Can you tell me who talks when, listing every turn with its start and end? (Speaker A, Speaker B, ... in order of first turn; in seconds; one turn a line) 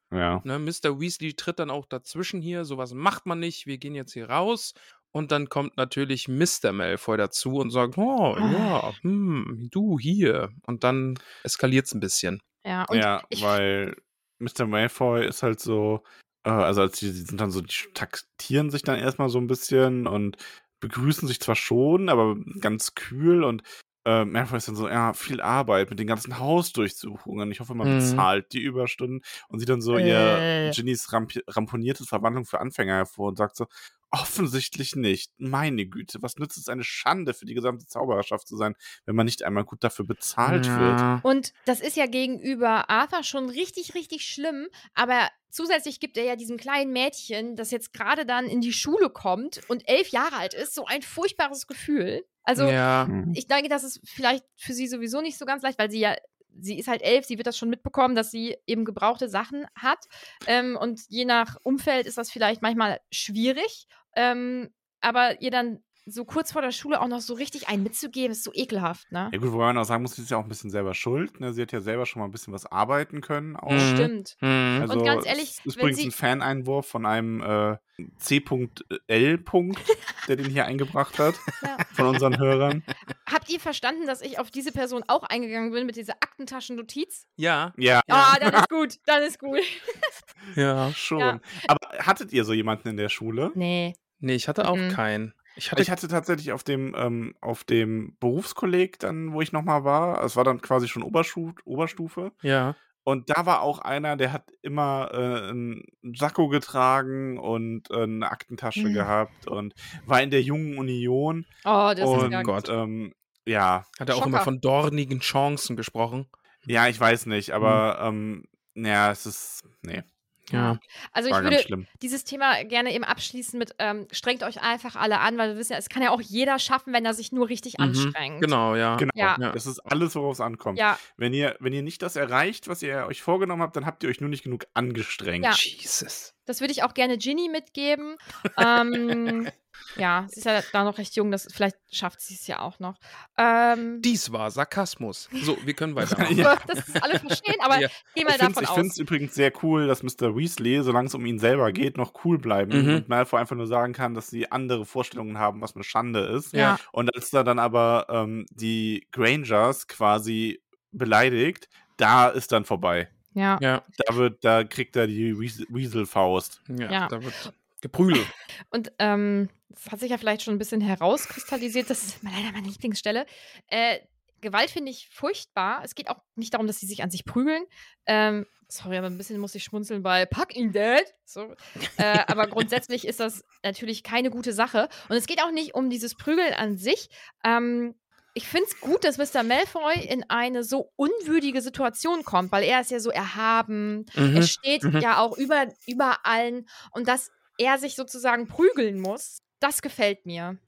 Speaker A: 0.1-0.4
Speaker B: 0.4-12.4
Speaker C: 8.4-8.8
Speaker C: 12.6-13.6
Speaker A: 12.9-41.0
Speaker B: 27.8-28.2
Speaker C: 29.9-30.8
Speaker B: 40.4-41.2
Speaker C: 41.2-69.3
Speaker B: 52.6-53.1
Speaker A: 53.1-53.4
Speaker A: 69.3-73.9
Speaker B: 73.7-74.9
Speaker C: 73.7-76.1
Speaker A: 74.8-82.8
Speaker C: 83.2-87.3
Speaker B: 87.4-88.4
Speaker A: 87.8-88.7
Speaker C: 88.1-90.1
Speaker B: 90.5-91.0
Speaker A: 90.9-93.6
Speaker C: 91.2-91.7
Speaker C: 93.5-94.0
Speaker B: 94.2-95.9
Speaker C: 94.6-95.0
Speaker A: 95.7-102.3
Speaker B: 102.4-102.8
Speaker A: 103.0-114.0
Speaker C: 108.8-109.1
Speaker C: 111.6-112.5
Speaker B: 112.1-112.7
Speaker B: 114.0-116.3
Speaker C: 114.1-114.5
Speaker A: 116.7-120.0
Speaker B: 120.5-120.8
Speaker C: 120.5-128.5
Speaker A: 121.3-121.9
Speaker B: 127.8-129.6
Speaker A: 129.0-135.6
Speaker C: 129.1-129.4
Speaker C: 130.8-131.0
Speaker B: 135.6-136.3
Speaker C: 136.5-144.1
Speaker B: 144.0-146.6
Speaker A: 146.0-146.8
Speaker C: 146.4-148.9
Speaker A: 148.2-163.1
Speaker B: 152.7-153.1
Speaker C: 156.5-156.8
Speaker C: 163.3-163.6
Speaker B: 163.6-163.8
Speaker A: 164.0-166.6
Speaker B: 166.7-168.3
Speaker C: 166.9-167.5
Speaker C: 168.7-200.6
Speaker B: 194.2-195.1